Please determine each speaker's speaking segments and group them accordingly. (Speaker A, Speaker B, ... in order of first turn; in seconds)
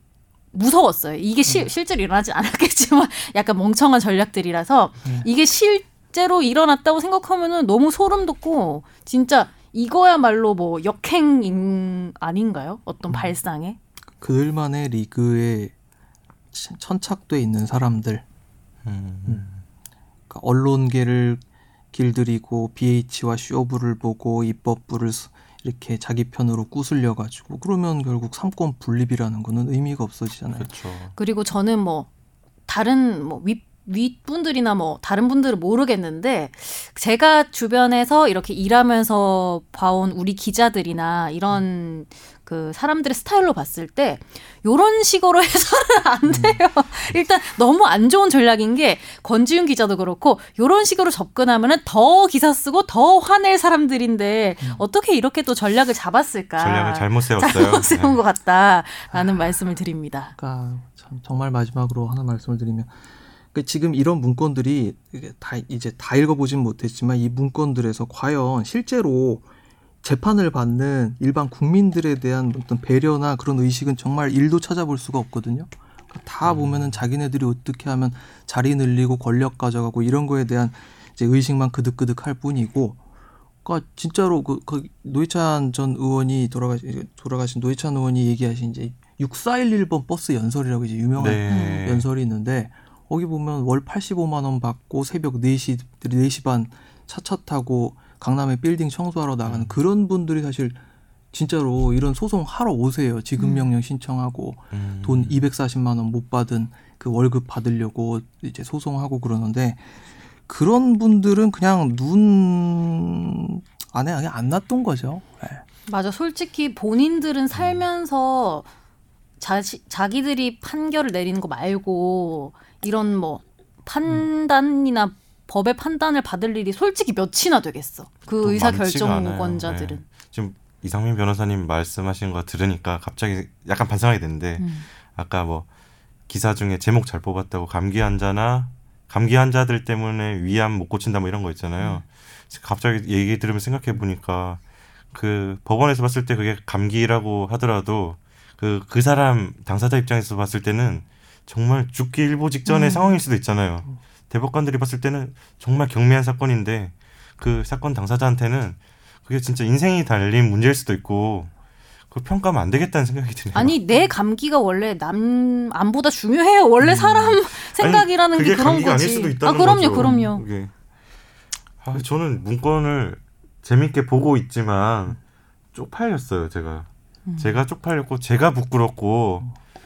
Speaker A: 0.5-13.8, 31.2-32.1, 32.7-60.3, 91.5-91.8, 103.4-103.7, 115.9-118.7, 119.4-130.0, 134.6-134.8, 152.7-153.1, 163.5-170.4, 177.3-177.6
Speaker B: 13.1-13.3, 14.2-15.7, 16.5-18.2, 20.3-21.4, 21.9-30.7, 46.2-46.6, 60.4-62.9, 63.5-69.4, 70.0-83.0, 83.6-100.8, 101.3-109.9, 110.5-115.6, 170.0-170.2
Speaker C: 18.8-19.6, 30.5-31.1, 56.6-58.2, 76.4-77.0, 91.2-92.1, 99.4-99.8, 104.7-105.4, 117.6-117.8, 128.4-135.7, 136.3-144.6, 145.1-161.5, 162.1-163.8, 166.8-170.7, 171.8-175.2, 175.7-179.5